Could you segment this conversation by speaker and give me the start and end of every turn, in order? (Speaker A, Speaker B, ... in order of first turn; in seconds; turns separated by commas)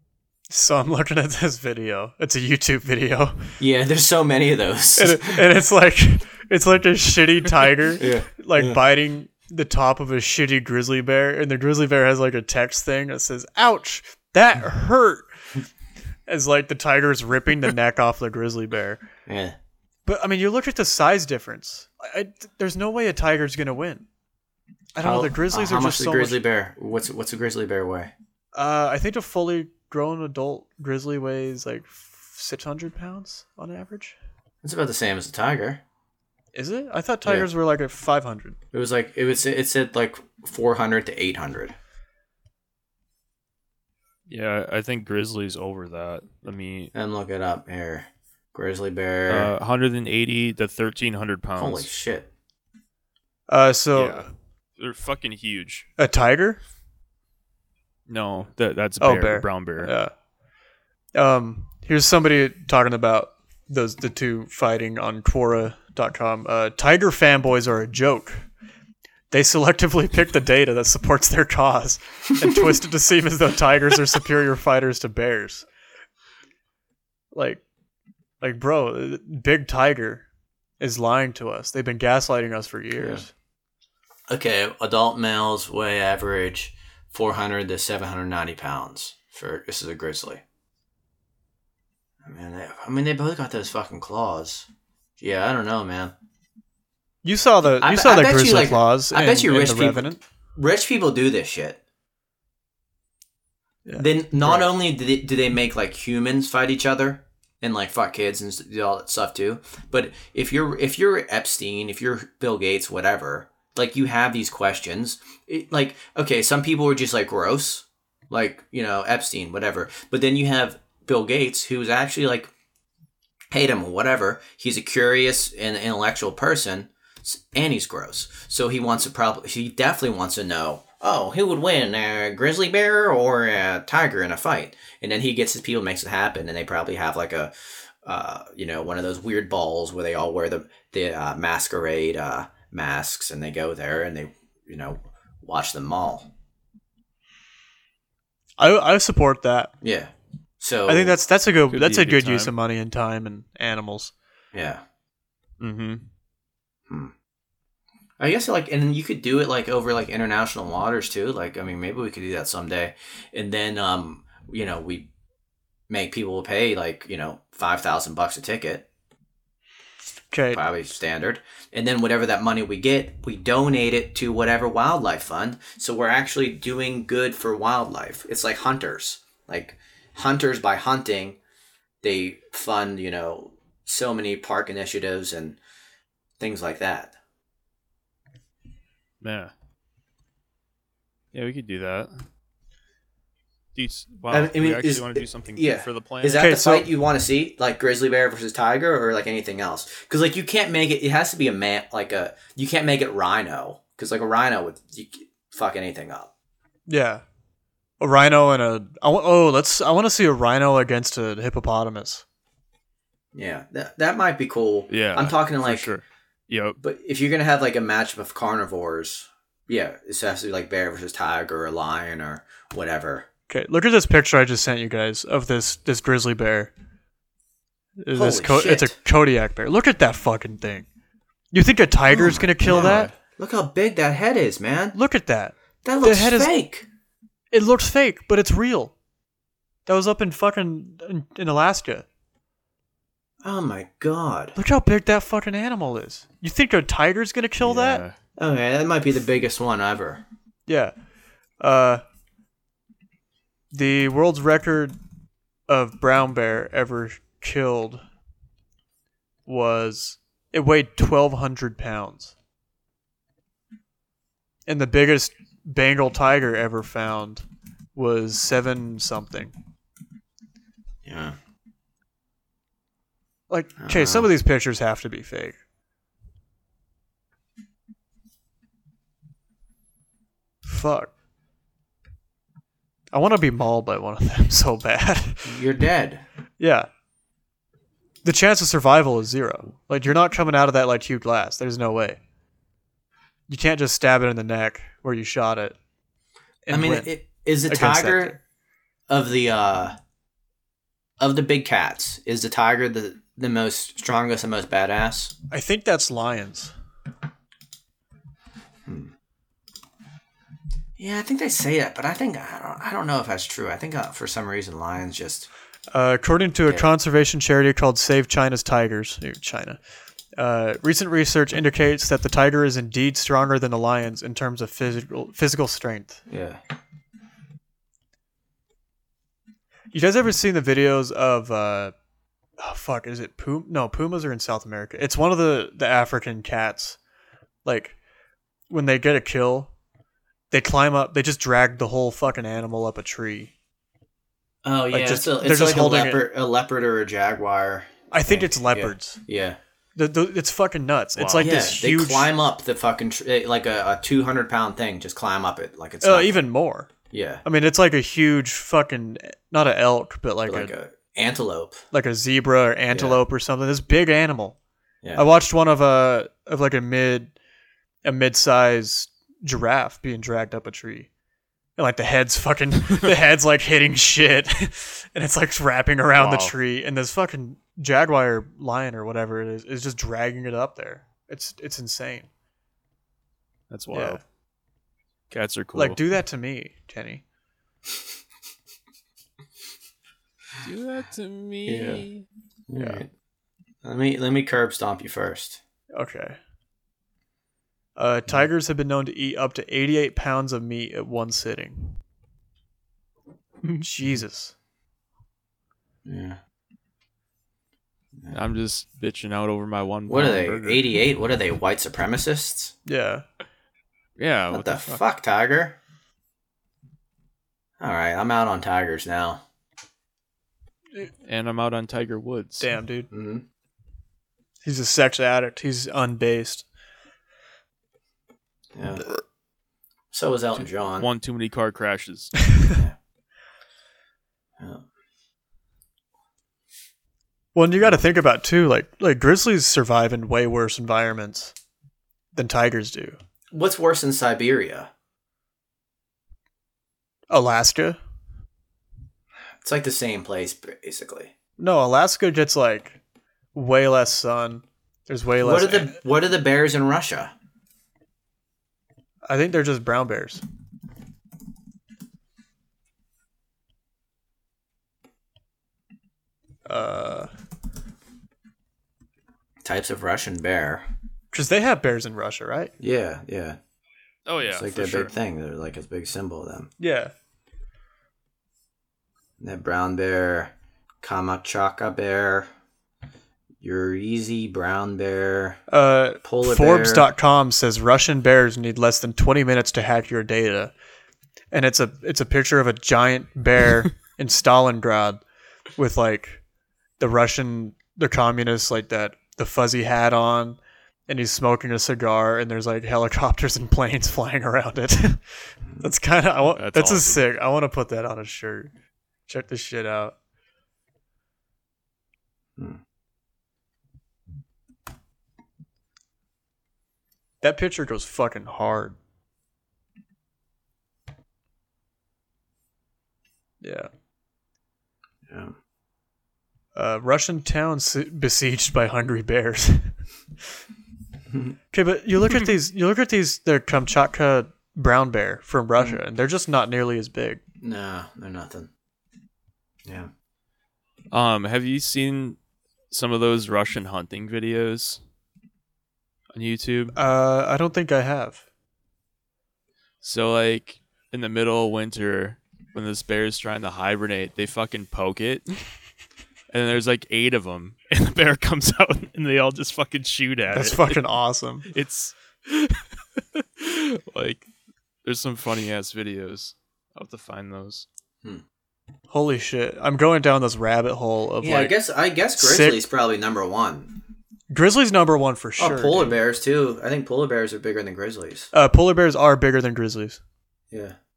Speaker A: 0.5-3.5, Speaker B: 3.6-5.4, Speaker A: 5.0-15.3, Speaker B: 8.0-8.8, Speaker A: 16.3-19.0, Speaker B: 19.3-19.6, Speaker A: 20.1-24.1, Speaker A: 25.0-26.4, Speaker B: 25.0-28.1, Speaker A: 28.6-34.2, Speaker B: 34.6-35.8, Speaker A: 36.5-38.6, Speaker B: 38.7-41.8, Speaker C: 44.3-46.9, Speaker B: 46.9-49.5, Speaker C: 49.3-51.9, Speaker B: 51.6-52.3, Speaker A: 53.5-54.3, Speaker C: 54.0-55.9, Speaker A: 56.0-56.6, Speaker C: 58.1-59.9, Speaker A: 59.0-60.1, Speaker A: 61.1-68.5, Speaker A: 69.3-75.7, Speaker A: 77.3-77.6, Speaker A: 78.4-80.3, Speaker A: 80.8-83.3, Speaker B: 83.0-83.2, Speaker B: 84.3-90.4, Speaker B: 92.2-94.7, Speaker B: 95.2-96.1, Speaker A: 97.2-100.2, Speaker B: 97.8-101.8, Speaker A: 103.9-104.7, Speaker B: 104.0-122.5, Speaker B: 123.5-137.5, Speaker B: 138.0-146.3, Speaker A: 148.6-149.7, Speaker B: 149.8-151.2, Speaker A: 150.9-154.1, Speaker C: 151.7-152.5, Speaker B: 154.5-154.8, Speaker C: 155.6-156.1, Speaker B: 156.9-157.1, Speaker B: 158.2-165.1, Speaker B: 165.9-168.9, Speaker A: 170.3-170.6, Speaker B: 170.5-181.4, Speaker B: 182.0-185.6, Speaker B: 186.4-187.2, Speaker C: 189.2-189.5, Speaker C: 191.3-192.1, Speaker C: 193.8-196.5, Speaker B: 194.3-206.3, Speaker A: 196.4-196.9, Speaker A: 206.9-207.2, Speaker A: 208.0-212.2, Speaker B: 213.3-215.9, Speaker C: 214.9-216.8, Speaker B: 216.8-223.3, Speaker A: 223.5-226.7, Speaker A: 228.0-230.9, Speaker B: 228.1-228.9, Speaker A: 231.5-233.1, Speaker B: 232.1-235.0, Speaker A: 234.9-236.5, Speaker B: 235.8-236.9, Speaker A: 237.5-238.9, Speaker A: 239.9-242.1, Speaker B: 243.4-244.6, Speaker A: 244.6-248.0, Speaker C: 247.6-248.2, Speaker B: 248.4-250.2, Speaker A: 250.7-250.9, Speaker A: 251.6-252.0, Speaker A: 253.7-254.9, Speaker A: 255.7-258.0, Speaker A: 259.5-262.3, Speaker A: 264.7-269.5, Speaker B: 271.1-271.4, Speaker A: 273.5-275.6, Speaker B: 273.8-274.3, Speaker A: 280.7-281.1, Speaker A: 283.1-285.6, Speaker B: 285.5-286.2, Speaker A: 286.6-286.9, Speaker A: 288.2-292.2, Speaker A: 293.5-295.8, Speaker A: 296.7-297.1, Speaker B: 296.7-298.4, Speaker A: 297.7-298.4, Speaker B: 299.1-299.9, Speaker B: 301.2-305.3, Speaker A: 305.5-306.7, Speaker B: 308.9-309.1, Speaker B: 311.0-315.5, Speaker A: 315.9-319.8, Speaker A: 320.4-326.2, Speaker B: 326.3-326.6, Speaker A: 329.9-331.9, Speaker A: 332.6-337.0, Speaker A: 337.6-338.0, Speaker A: 338.7-339.7, Speaker A: 340.5-343.5, Speaker B: 344.6-349.6, Speaker A: 344.9-346.2, Speaker A: 348.1-349.2, Speaker A: 350.0-352.3, Speaker C: 351.2-351.5, Speaker B: 351.4-356.5, Speaker A: 356.0-356.9, Speaker B: 357.1-357.4, Speaker A: 357.4-360.7, Speaker B: 360.5-361.8, Speaker A: 361.9-364.6, Speaker B: 362.9-363.2, Speaker A: 365.1-367.3, Speaker A: 368.1-371.1, Speaker A: 371.8-382.3, Speaker C: 376.2-376.6, Speaker C: 383.7-384.2, Speaker A: 383.9-384.2, Speaker C: 385.3-386.0, Speaker A: 385.7-387.2, Speaker C: 390.6-392.2, Speaker B: 391.7-392.1, Speaker B: 392.7-393.1, Speaker B: 393.8-395.6, Speaker A: 395.9-396.4, Speaker A: 398.0-402.0, Speaker A: 403.7-404.5, Speaker B: 406.1-406.4, Speaker C: 408.3-410.9, Speaker B: 410.1-412.7, Speaker A: 412.9-413.2, Speaker C: 414.2-415.0, Speaker B: 414.5-415.8, Speaker B: 417.8-419.4, Speaker C: 421.2-422.7, Speaker A: 422.6-423.1, Speaker B: 423.1-423.4, Speaker A: 424.6-426.6, Speaker B: 428.8-429.1, Speaker B: 430.1-431.1, Speaker C: 431.0-432.4, Speaker B: 432.7-433.0, Speaker B: 434.6-434.8, Speaker A: 437.6-441.5, Speaker A: 442.4-443.2, Speaker B: 443.5-444.9, Speaker A: 447.3-448.0, Speaker B: 449.6-451.3, Speaker A: 451.6-453.0, Speaker A: 453.5-456.0, Speaker B: 455.4-457.3, Speaker A: 459.3-460.4, Speaker A: 466.7-467.3, Speaker B: 469.6-470.9, Speaker A: 471.3-472.7, Speaker B: 472.8-473.6, Speaker C: 474.3-475.1, Speaker B: 474.5-476.7, Speaker A: 476.8-477.1, Speaker B: 479.4-482.5, Speaker B: 483.6-485.6, Speaker A: 485.7-490.7, Speaker B: 486.2-487.1, Speaker A: 491.5-495.2, Speaker A: 495.8-496.4, Speaker A: 497.0-505.2, Speaker A: 505.8-508.7, Speaker C: 506.6-507.2, Speaker A: 509.3-510.2, Speaker A: 517.4-519.0, Speaker A: 523.6-523.9, Speaker B: 525.3-525.5, Speaker A: 526.8-530.0, Speaker B: 531.3-531.6, Speaker A: 531.7-537.4, Speaker B: 537.6-538.7, Speaker C: 541.1-542.4, Speaker C: 542.9-545.0, Speaker C: 546.3-547.0, Speaker A: 547.0-548.4, Speaker C: 550.0-555.6, Speaker C: 556.5-561.0, Speaker A: 560.5-561.7, Speaker C: 561.7-564.5, Speaker C: 565.0-567.9, Speaker A: 569.1-571.8, Speaker B: 571.4-574.0, Speaker A: 572.4-572.8, Speaker A: 574.5-576.1, Speaker B: 575.6-578.5, Speaker A: 578.5-580.2, Speaker B: 580.7-581.0